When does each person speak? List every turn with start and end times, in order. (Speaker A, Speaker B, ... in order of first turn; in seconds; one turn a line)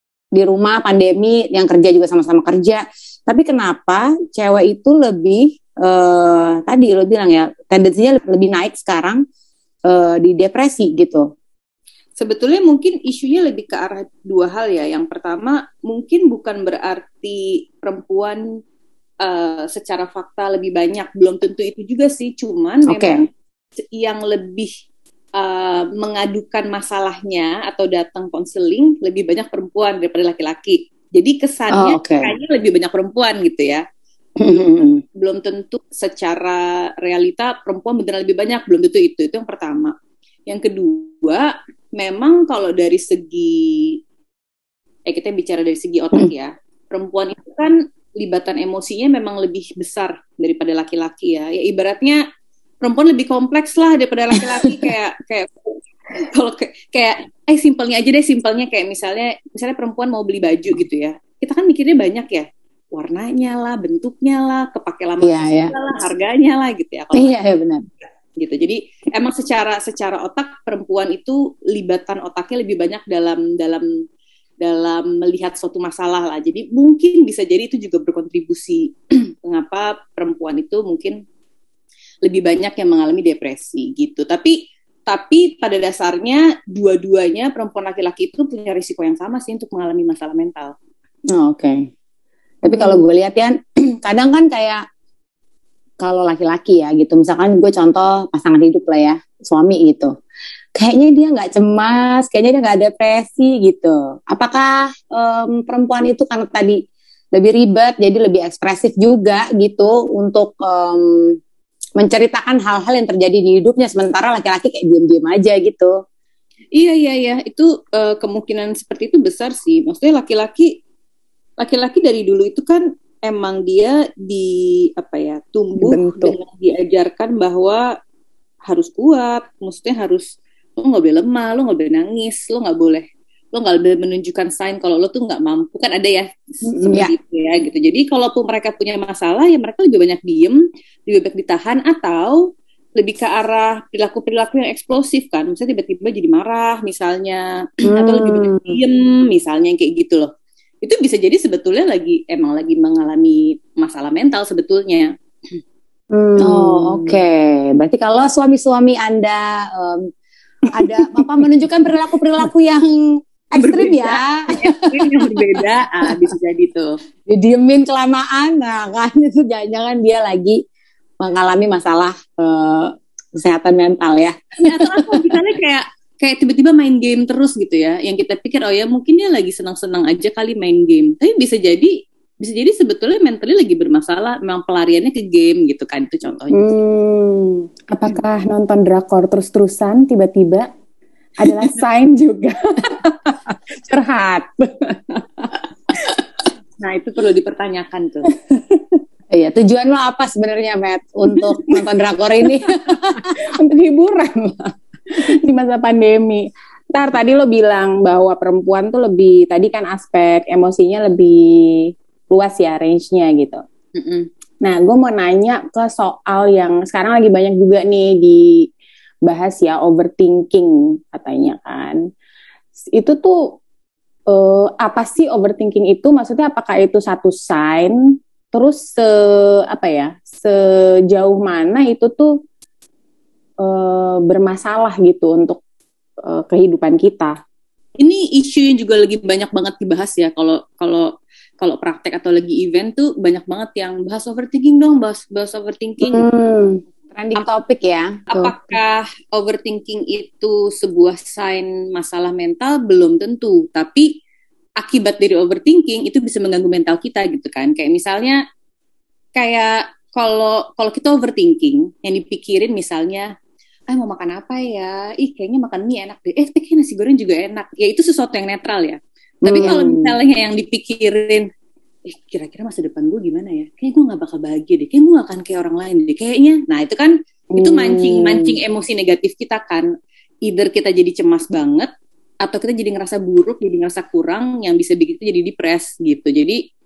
Speaker A: 0.3-9.2
Speaker A: 9.9-11.3
Speaker B: 12.2-18.4
Speaker B: 19.2-23.3
Speaker A: 22.9-23.2
Speaker B: 23.9-24.7
Speaker B: 25.4-33.9
Speaker A: 31.7-32.3
Speaker A: 34.4-35.0
Speaker B: 35.2-40.0
Speaker B: 40.5-44.0
Speaker B: 45.1-52.2
Speaker B: 52.8-55.5
Speaker B: 56.2-67.3
Speaker A: 65.2-65.7
Speaker A: 67.1-67.8
Speaker B: 68.4-73.9
Speaker B: 74.6-81.2
Speaker B: 82.2-90.8
Speaker A: 91.3-91.9
Speaker A: 92.6-94.9
Speaker A: 96.0-100.2
Speaker A: 100.8-106.8
Speaker A: 107.3-111.4
Speaker A: 112.0-116.0
Speaker B: 116.8-120.8
Speaker B: 121.6-127.9
Speaker C: 125.8-126.4
Speaker B: 128.7-130.3
Speaker B: 130.8-150.3
Speaker A: 147.9-148.8
Speaker B: 150.8-155.1
Speaker C: 156.1-157.2
Speaker A: 156.4-160.1
Speaker A: 160.7-165.1
Speaker B: 163.6-167.0
Speaker A: 167.3-170.6
Speaker A: 171.2-175.3
Speaker B: 174.7-186.7
Speaker C: 186.5-190.7
Speaker C: 191.4-195.5
Speaker B: 196.8-198.3
Speaker C: 198.5-198.8
Speaker A: 199.3-203.3
Speaker C: 203.4-213.6
Speaker B: 214.0-214.3
Speaker C: 214.6-218.7
Speaker C: 219.2-222.0
Speaker C: 222.9-223.5
Speaker C: 224.3-232.3
Speaker C: 233.6-235.6
Speaker C: 236.2-237.4
Speaker B: 238.0-246.2
Speaker A: 246.0-248.6
Speaker B: 248.3-254.2
Speaker B: 254.8-258.4
Speaker B: 259.4-263.3
Speaker B: 263.9-271.5
Speaker A: 269.4-270.2
Speaker B: 272.1-279.9
Speaker C: 277.7-278.4
Speaker B: 280.4-281.9
Speaker B: 282.4-286.6